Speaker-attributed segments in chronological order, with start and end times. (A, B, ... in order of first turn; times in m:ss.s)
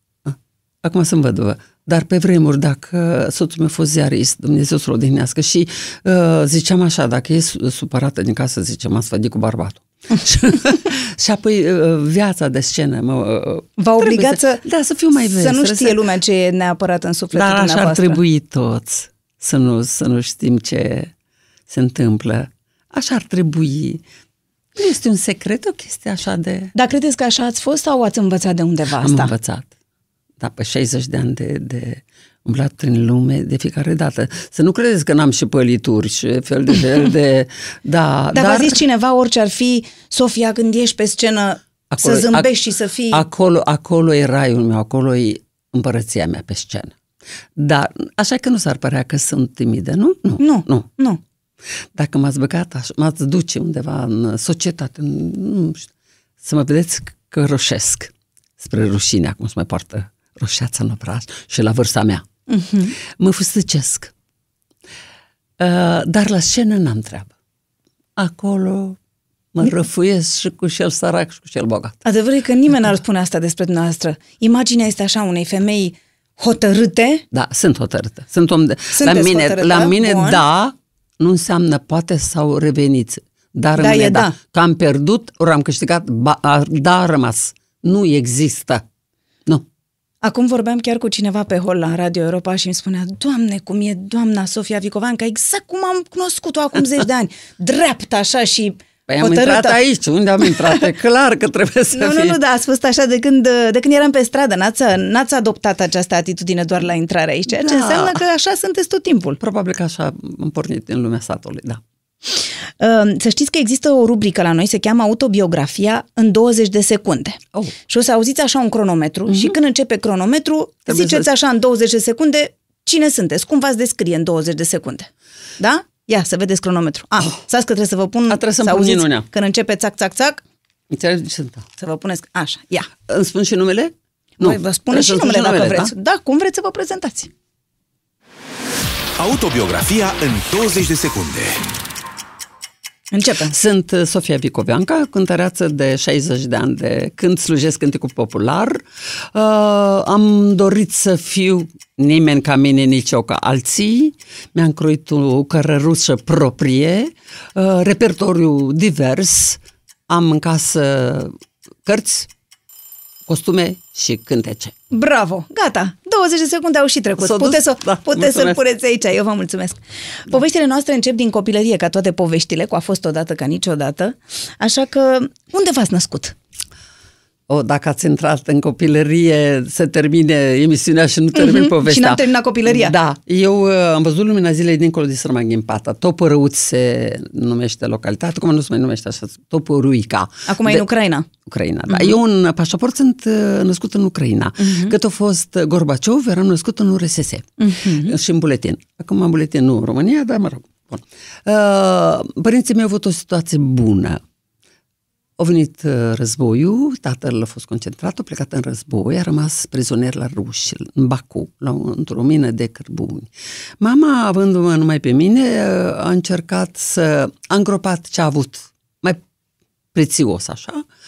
0:00.2-0:16.0 A
0:13.8-0:14.6 B
0:15.2-0:18.2 B
0:17.3-0:21.1 A
0:21.7-0:24.0 A
0:24.8-0:26.7 A
0:26.7-0:29.3 B
0:29.0-0:29.7 A
0:30.4-0:38.8 A
0:38.3-0:43.2 B
0:41.9-0:42.5 A
0:43.1-0:47.0 A
0:47.6-0:50.9 A
0:50.4-0:51.2 B
0:51.9-0:55.9 A
0:56.4-1:02.2 A
1:02.5-1:02.9 B
1:03.0-1:04.1 A
1:05.6-1:07.3 A
1:08.2-1:09.0 A
1:09.5-1:12.0 A
1:12.0-1:17.2 B
1:17.3-1:28.8 A
1:18.9-1:20.4 B
1:23.8-1:24.4 B
1:30.2-1:39.8 B
1:39.1-1:42.4 A
1:41.9-1:49.4 B
1:47.5-1:48.2 A
1:49.4-1:51.8 A
1:52.8-2:10.4 B
1:59.3-1:59.6 A
2:00.9-2:01.3 A
2:08.3-2:09.3 A
2:10.9-2:11.6 A
2:11.8-2:12.9 B
2:13.0-2:15.9 A
2:14.4-2:17.3 B
2:19.2-2:21.6 C
2:23.1-2:23.5 B
2:23.5-2:41.3 A
2:41.8-2:42.3 A
2:43.3-2:44.7 A
2:44.9-2:56.4 B
2:47.2-2:48.6 A
2:57.5-3:10.9 A
3:01.3-3:02.9 B
3:10.5-3:11.3 B
3:11.4-3:24.2 A
3:11.9-3:12.2 B
3:14.6-3:14.9 B
3:17.6-3:18.1 B
3:25.4-3:39.2 A
3:39.9-3:40.8 A